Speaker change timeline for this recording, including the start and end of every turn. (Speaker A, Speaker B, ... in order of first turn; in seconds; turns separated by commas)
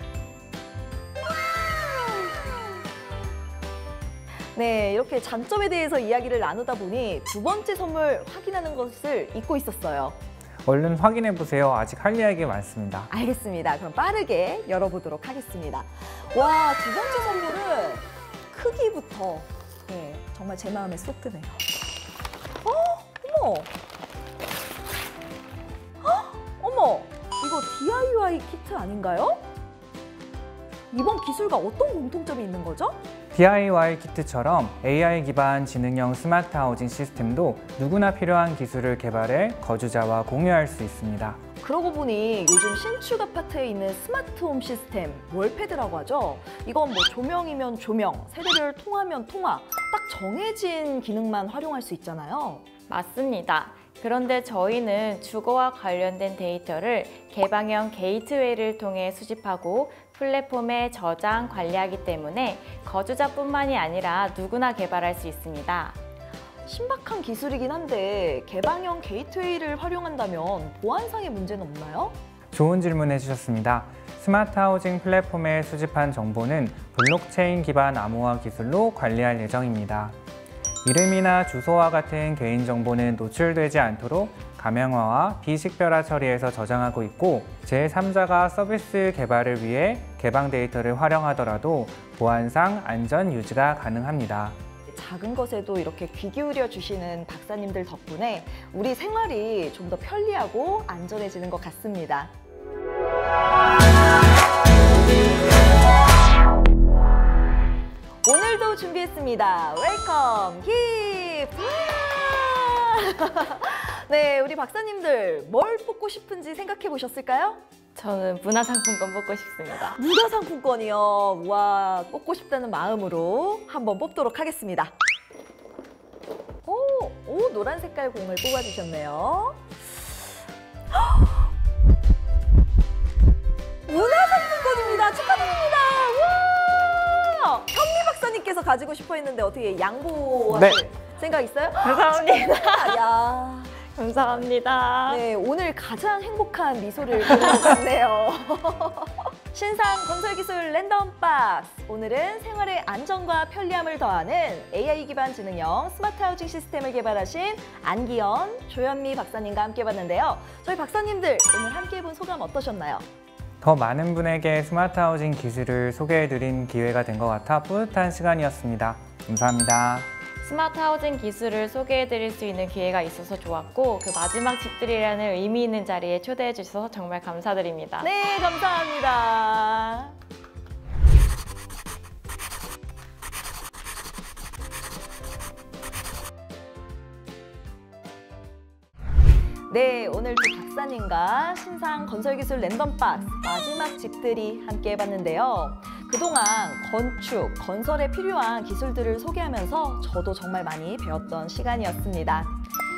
Speaker A: 4.5-10.2, Speaker B: 10.6-13.1, Speaker A: 13.1-21.6, Speaker A: 22.6-23.7, Speaker A: 26.0-29.4, Speaker A: 30.9-33.0, Speaker B: 33.3-41.4, Speaker A: 41.6-52.6, Speaker C: 52.9-66.0, Speaker A: 66.7-72.1, Speaker B: 72.5-80.1, Speaker B: 80.8-94.6, Speaker A: 94.9-102.3, Speaker A: 108.2-117.6, Speaker C: 117.9-120.0, Speaker A: 119.9-124.9, Speaker A: 126.6-129.6, Speaker A: 133.9-143.7, Speaker C: 141.7-143.0, Speaker C: 143.8-145.2, Speaker A: 145.1-163.0, Speaker B: 163.6-170.1, Speaker C: 170.4-178.1, Speaker A: 178.0-180.1, Speaker A: 189.7-202.5